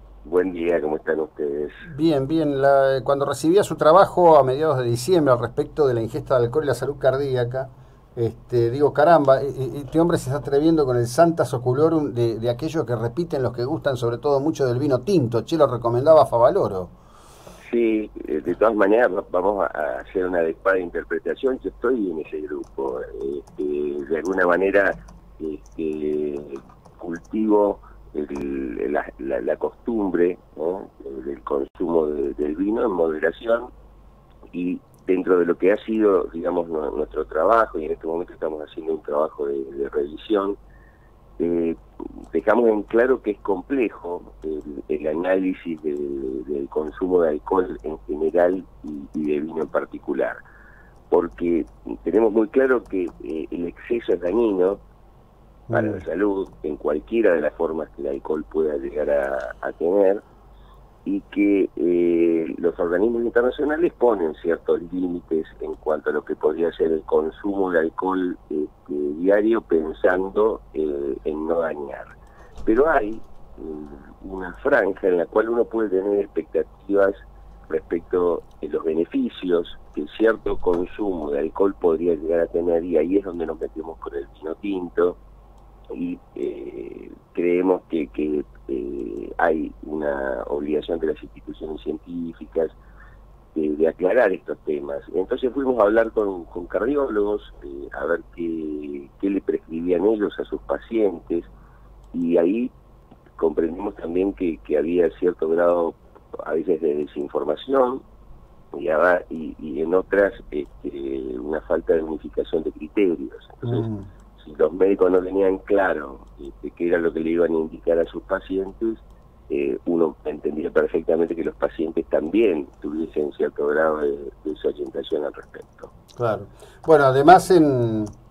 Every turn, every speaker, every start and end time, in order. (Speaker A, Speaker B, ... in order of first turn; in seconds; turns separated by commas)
Speaker A: 0.2-1.8, Speaker B: 1.8-16.9, Speaker A: 17.7-33.7, Speaker A: 34.5-40.6, Speaker A: 41.4-41.8, Speaker A: 42.3-50.4, Speaker A: 51.1-54.8, Speaker B: 55.7-56.0, Speaker A: 55.7-60.2, Speaker A: 61.0-72.0, Speaker A: 72.7-85.2, Speaker A: 85.9-92.8, Speaker A: 93.5-101.5, Speaker A: 102.1-102.7, Speaker A: 103.4-108.0, Speaker A: 108.7-113.9, Speaker B: 113.6-114.1, Speaker A: 114.4-125.9, Speaker B: 126.2-128.1